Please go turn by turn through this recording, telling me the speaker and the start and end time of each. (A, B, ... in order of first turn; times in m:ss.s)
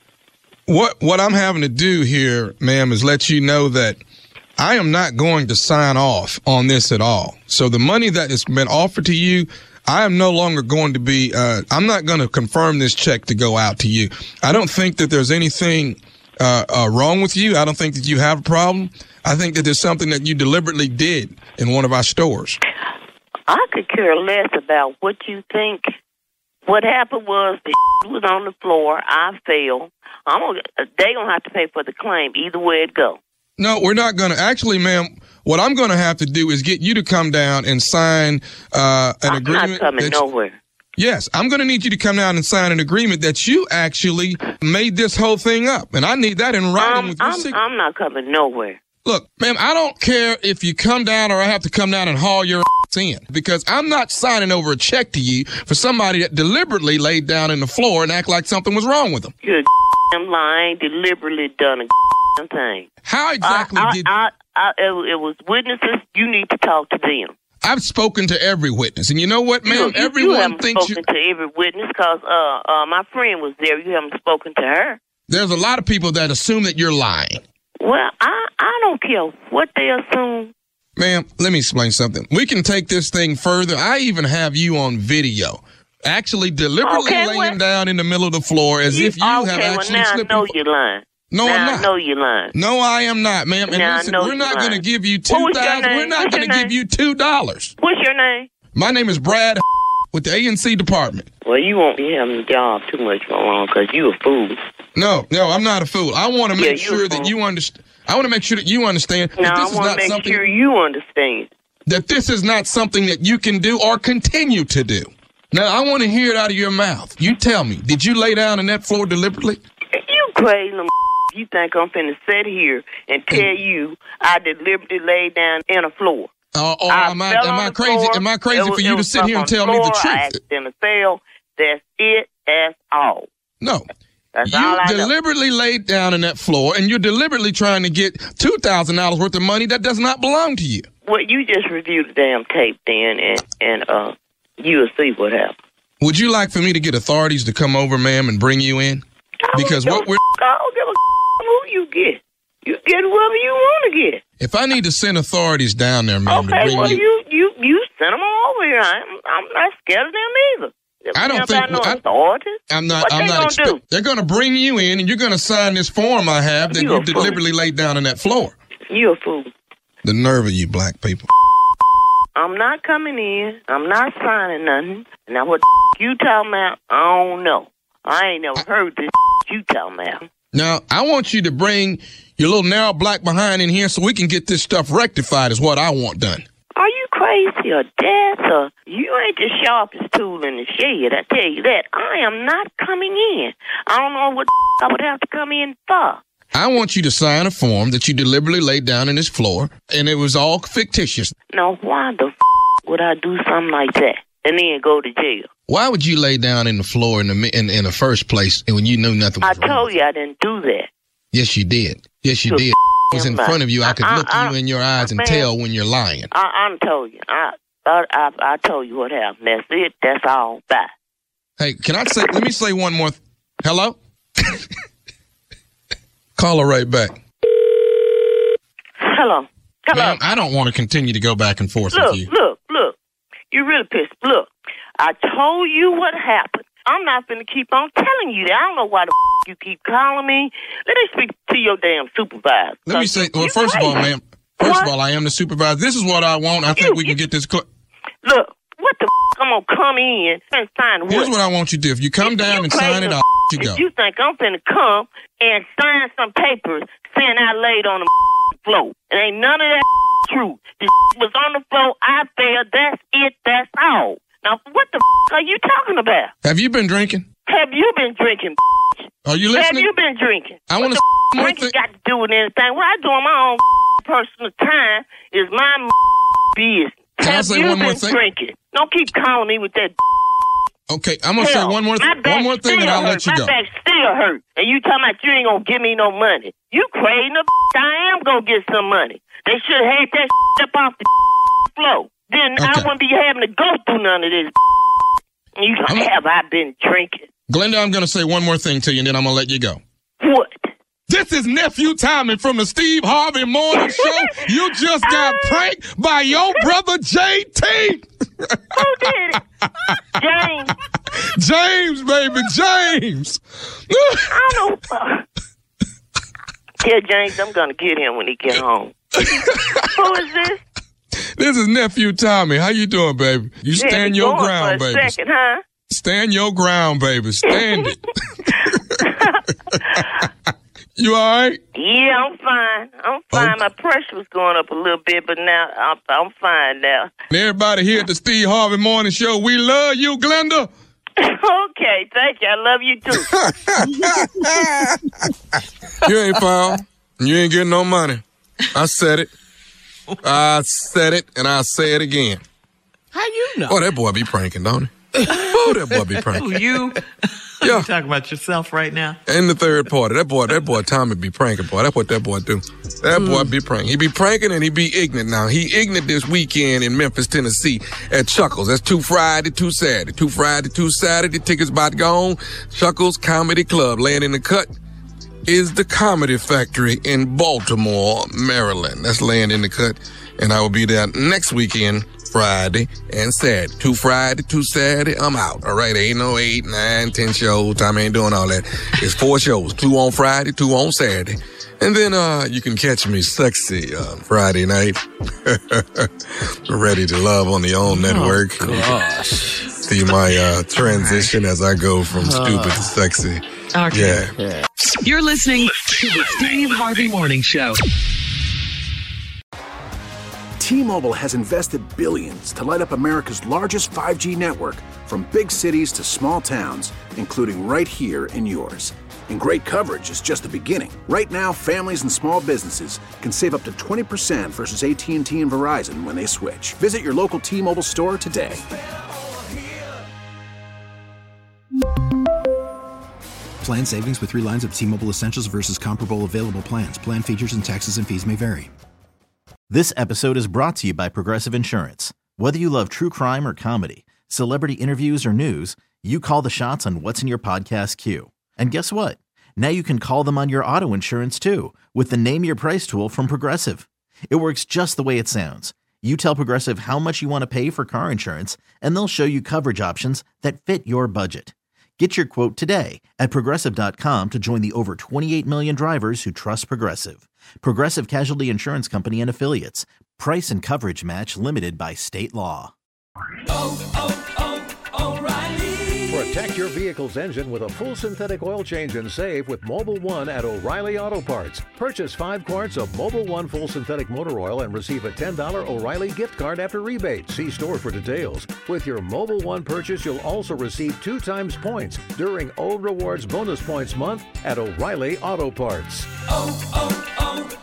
0:00.7-0:04.0 A
0:04.6-0:22.6 A
0:23.5-0:25.9 B
0:26.6-0:33.2 B
0:33.6-0:40.2 A
0:39.3-0:40.6 B
0:41.0-0:47.6 A
0:46.8-0:48.8 B
0:49.0-0:59.3 A
0:59.4-1:02.9 B
1:03.0-1:04.1 A
1:03.4-1:07.4 B
1:07.6-1:11.0 A
1:09.7-1:15.0 B
1:15.3-1:17.4 A
1:17.8-1:20.5 B
1:21.0-1:30.5 A
1:26.8-1:27.6 B
1:28.9-1:32.5 B
1:31.3-1:31.9 A
1:32.5-1:37.7 A
1:33.7-1:36.7 B
1:37.8-1:38.5 B
1:38.7-1:41.3 A
1:41.4-1:44.6 B
1:45.0-1:50.4 A
1:46.6-1:47.3 B
1:49.4-1:51.5 B
1:51.9-1:59.6 A
1:59.9-2:06.3 B
2:06.5-2:10.4 A
2:06.9-2:13.3 B
2:14.3-2:15.1 B
2:14.4-2:20.9 A
2:21.0-2:25.6 B
2:26.0-2:29.0 A
2:29.5-2:34.2 B
2:29.5-2:30.2 A
2:34.4-2:37.0 A
2:36.3-2:43.8 B
2:41.2-2:42.0 A
2:42.7-2:48.6 A
2:46.7-2:47.4 B
2:48.9-2:49.5 B
2:50.0-2:51.3 A
2:52.4-3:00.3 B
3:00.5-3:06.4 A
3:06.8-3:16.2 B
3:16.5-3:21.3 A
3:21.5-3:25.5 B
3:25.7-3:29.8 A
3:29.4-3:30.9 B
3:31.3-3:36.3 A
3:32.5-3:35.5 B
3:36.3-3:40.9 B
3:41.6-3:44.0 A
3:46.4-3:47.2 A
3:49.0-3:50.2 B
3:49.9-3:52.3 A
3:51.9-3:53.0 B
3:53.5-4:04.1 B
4:02.9-4:07.7 A
4:04.6-4:04.9 B
4:06.7-4:07.1 B
4:08.2-4:11.3 B
4:11.1-4:13.8 A
4:12.2-4:18.1 B
4:18.6-4:26.3 B
4:26.4-4:27.3 A
4:27.5-4:35.9 B
4:29.2-4:29.9 A
4:30.7-4:31.8 A
4:36.5-4:40.0 B
4:37.2-4:38.2 A
4:40.9-4:43.5 A
4:41.4-4:51.1 B
4:51.7-4:54.5 B
4:52.6-4:52.9 A
4:55.6-4:57.3 B
4:57.5-4:59.8 A
5:00.2-5:00.7 B
5:01.1-5:08.6 A
5:03.8-5:04.2 B
5:05.0-5:05.6 B
5:08.7-5:09.4 B
5:10.2-5:10.7 B
5:11.2-5:14.3 A
5:14.3-5:15.2 B
5:16.8-5:19.0 B
5:19.9-5:20.6 B
5:21.4-5:25.2 A
5:23.8-5:25.6 B
5:25.9-5:28.1 A
5:29.0-5:30.0 B
5:31.0-5:31.6 A
5:31.8-5:37.1 B
5:33.3-5:33.6 A
5:37.3-5:40.7 A
5:41.2-5:43.3 B
5:43.2-5:45.0 A
5:46.0-5:49.3 A
5:50.2-5:52.4 A
5:53.2-5:53.8 C
5:53.7-5:56.6 A
5:55.3-5:55.6 C
5:56.3-5:57.0 C
5:57.6-5:59.2 C
5:57.6-5:57.9 A
5:59.3-6:14.7 A
6:03.2-6:03.5 C
6:15.5-6:36.1 A
6:36.7-6:39.0 A
6:37.9-6:39.7 C
6:39.8-6:44.3 A
6:40.8-6:41.4 C
6:42.2-6:42.8 C
6:43.7-6:44.4 C
6:45.0-6:47.8 C
6:50.6-7:08.6 D
7:13.6-7:18.7 E
7:19.7-7:52.7 F
7:56.1-8:17.3 G